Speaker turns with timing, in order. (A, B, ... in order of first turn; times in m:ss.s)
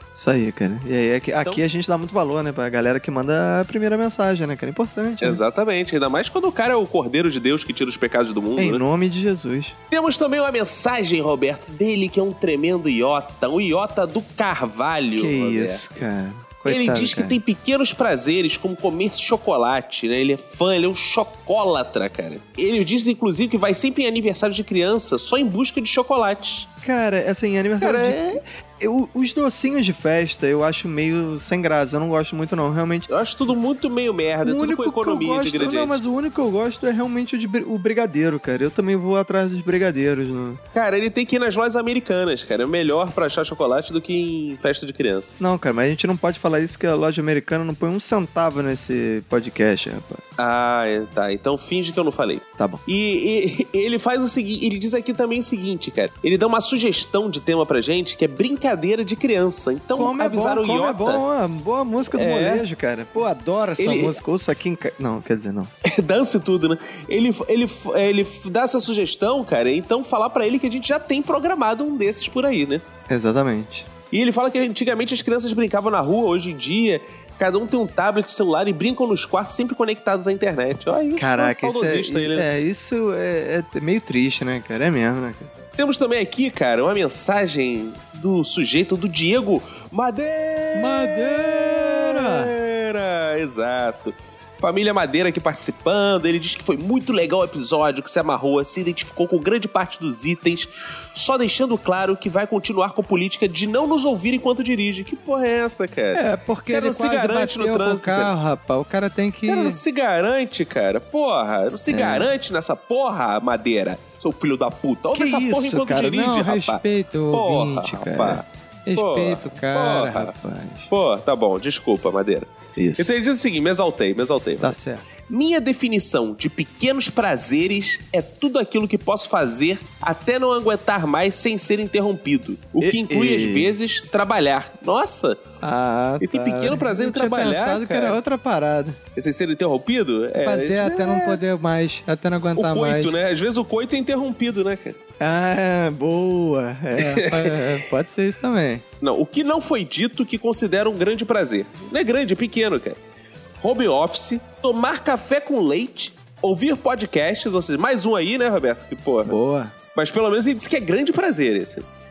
0:00.2-0:05.4 A
0:05.2-0:08.8 B
0:08.6-0:09.8 A
0:09.9-0:15.8 B
0:15.2-0:17.4 A
0:16.7-0:26.7 B
0:26.8-0:33.1 A
0:27.8-0:28.4 B
0:33.1-0:36.0 B
0:34.4-0:40.6 A
0:40.7-0:45.4 B
0:45.4-0:50.2 A
0:50.4-1:01.2 B
0:52.6-0:52.8 A
1:00.0-1:05.7 A
1:02.1-1:02.6 B
1:03.8-1:04.2 B
1:05.8-1:12.8 B
1:13.1-1:13.9 A
1:14.1-1:22.5 B
1:21.2-1:25.5 A
1:25.8-1:48.3 B
1:30.8-1:32.5 A
1:46.1-1:49.8 A
1:49.5-1:58.4 B
1:51.9-1:52.3 A
1:55.1-2:00.9 A
1:59.0-2:00.3 B
2:00.9-2:04.8 B
2:02.8-2:03.2 A
2:04.6-2:05.1 A
2:05.3-2:15.4 B
2:12.8-2:13.7 A
2:15.6-2:19.0 A
2:16.2-2:18.2 B
2:19.2-2:21.4 B
2:20.4-2:23.2 A
2:22.6-2:25.0 B
2:25.2-2:28.8 A
2:27.0-2:27.7 B
2:29.0-2:33.0 B
2:33.6-2:39.4 B
2:39.2-2:39.8 A
2:40.0-2:41.9 B